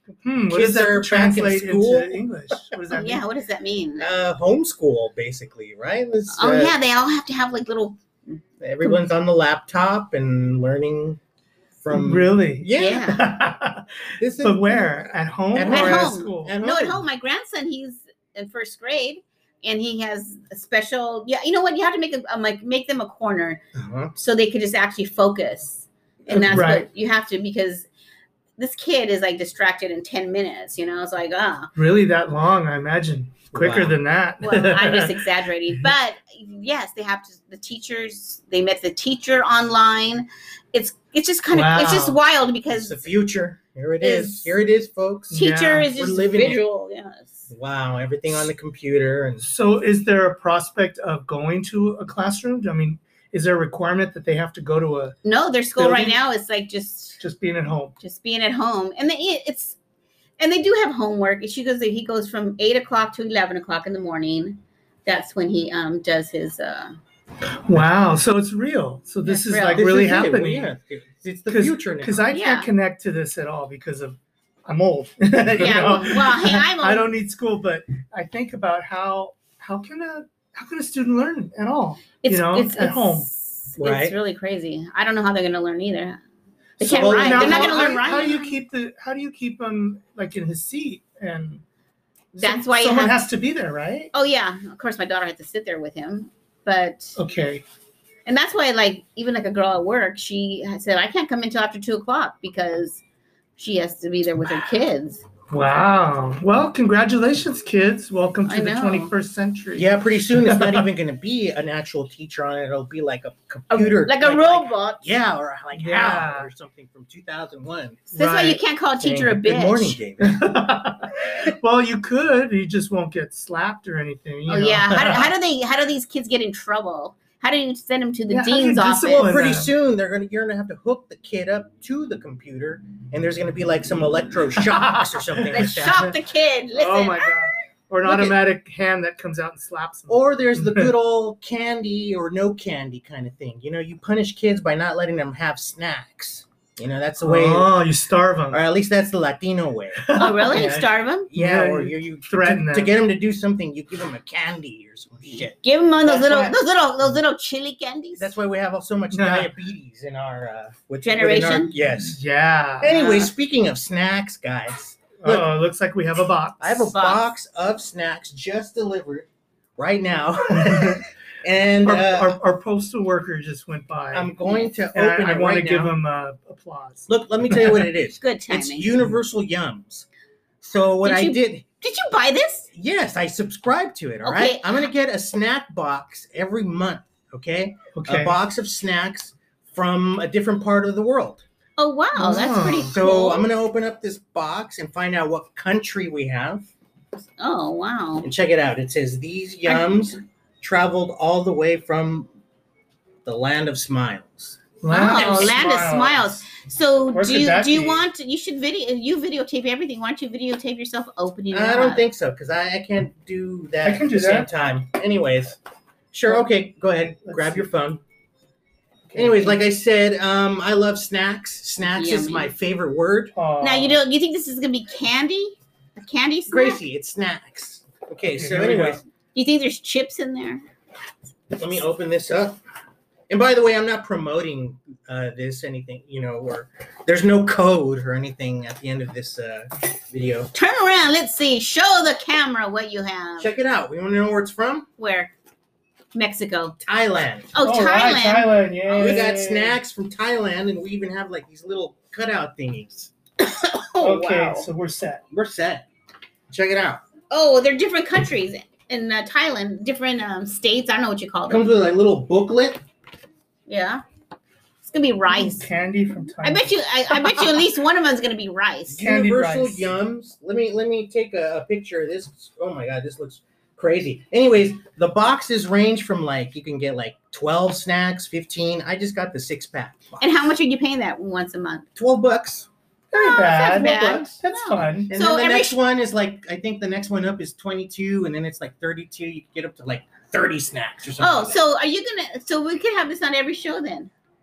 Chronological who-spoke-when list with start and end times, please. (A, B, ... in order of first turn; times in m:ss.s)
0:00.2-0:03.3 A
0:00.5-0:02.6 B
0:02.9-0:04.1 C
0:04.0-0:06.7 B
0:06.3-0:08.4 C
0:08.6-0:11.2 B
0:11.8-0:13.1 B
0:11.9-0:16.6 A
0:12.7-0:13.3 C
0:14.2-0:14.9 B
0:15.5-0:17.0 B
0:15.7-0:23.6 C
0:23.7-0:24.1 B
0:24.2-0:27.9 C
0:26.2-0:26.6 B
0:26.3-0:26.9 A
0:28.6-0:31.7 C
0:31.8-0:35.3 A
0:33.5-0:34.0 B
0:34.4-0:43.1 C
0:41.5-0:42.2 A
0:42.7-0:46.6 B
0:44.0-0:44.6 C
0:45.3-0:45.9 A
0:45.3-0:47.5 C
0:47.5-0:49.5 B
0:49.4-0:55.2 A
0:55.2-0:57.2 C
0:55.8-0:56.2 A
0:57.2-0:57.9 A
0:58.0-0:59.8 C
1:00.4-1:07.0 C
1:07.7-1:10.7 A
1:09.2-1:09.8 C
1:09.7-1:12.2 B
1:11.5-1:23.3 A
1:12.3-1:12.7 C
1:15.6-1:17.1 C
1:22.2-1:26.2 C
1:23.8-1:24.2 B
1:26.8-1:28.6 C
1:26.8-1:31.6 A
1:26.9-1:28.0 B
1:32.3-1:34.1 A
1:32.3-1:33.2 C
1:34.1-1:37.2 C
1:37.2-1:37.6 A
1:38.2-1:43.0 C
1:43.6-1:45.2 C
1:45.5-1:50.9 A
1:48.4-1:49.1 C
1:49.8-1:58.1 B
1:53.7-1:55.0 C
1:55.7-1:56.5 A
1:58.1-1:58.6 A
1:58.2-2:00.0 C
1:59.0-2:00.4 B
2:00.2-2:05.3 A
2:04.5-2:09.3 C
2:08.3-2:09.7 A
2:09.1-2:16.1 B
2:14.6-2:16.1 A
2:15.5-2:17.4 C
2:16.7-2:20.9 A
2:18.0-2:18.4 B
2:20.1-2:27.7 B
2:27.2-2:28.6 A
2:28.5-2:36.6 B
2:30.0-2:30.7 A
2:30.2-2:31.3 C
2:31.3-2:32.9 A
2:35.5-2:38.3 C
2:38.2-2:42.2 B
2:39.1-2:39.5 A
2:41.0-2:41.7 C
2:42.0-2:43.0 A
2:42.8-2:45.5 B
2:42.9-2:43.3 C
2:45.2-2:46.9 A
2:46.6-2:52.4 B
2:46.9-2:47.3 C
2:50.5-2:51.1 A
2:51.8-2:54.3 A
2:54.1-2:55.9 B
2:54.9-2:57.9 A
2:57.1-3:00.1 B
2:58.2-2:58.9 C
3:00.6-3:01.6 B
3:01.0-3:02.7 C
3:02.7-3:11.4 B
3:04.2-3:04.8 C
3:07.9-3:08.3 A
3:11.8-3:13.4 C
3:12.2-3:12.9 A
3:12.6-3:16.7 B
3:17.4-3:18.3 C
3:18.2-3:22.3 B
3:19.7-3:20.0 C
3:23.2-3:25.6 B
3:24.8-3:26.4 A
3:24.9-3:32.0 C
3:27.1-3:28.0 A
3:31.5-3:35.6 B
3:33.8-3:34.5 A
3:36.1-3:38.0 B
3:37.1-3:37.7 A
3:39.1-3:39.6 A
3:39.2-3:43.3 B
3:41.9-3:42.5 C
3:43.3-3:44.0 A
3:43.6-3:46.8 C
3:46.5-3:49.0 B
3:48.2-3:49.0 A
3:49.3-3:50.6 C
3:51.5-3:52.6 B
3:53.3-4:00.5 B
4:00.5-4:03.5 C
4:03.4-4:04.9 B
4:05.0-4:05.3 C
4:06.1-4:06.8 C
4:06.8-4:07.6 B
4:07.5-4:09.2 C
4:07.6-4:09.8 A
4:08.9-4:13.1 B
4:13.4-4:14.7 C
4:14.0-4:15.2 A
4:15.3-4:15.9 B
4:16.5-4:17.0 B
4:17.3-4:21.7 C
4:21.5-4:22.8 B
4:23.7-4:24.0 C
4:24.8-4:25.7 C
4:25.3-4:27.2 A
4:26.4-4:29.0 C
4:28.9-4:40.2 B
4:29.0-4:29.9 A
4:40.2-4:41.9 C
4:42.0-4:42.7 B
4:43.1-4:45.1 A
4:43.1-4:45.8 C
4:43.7-4:44.4 B
4:44.9-4:51.6 B
4:51.2-4:54.1 C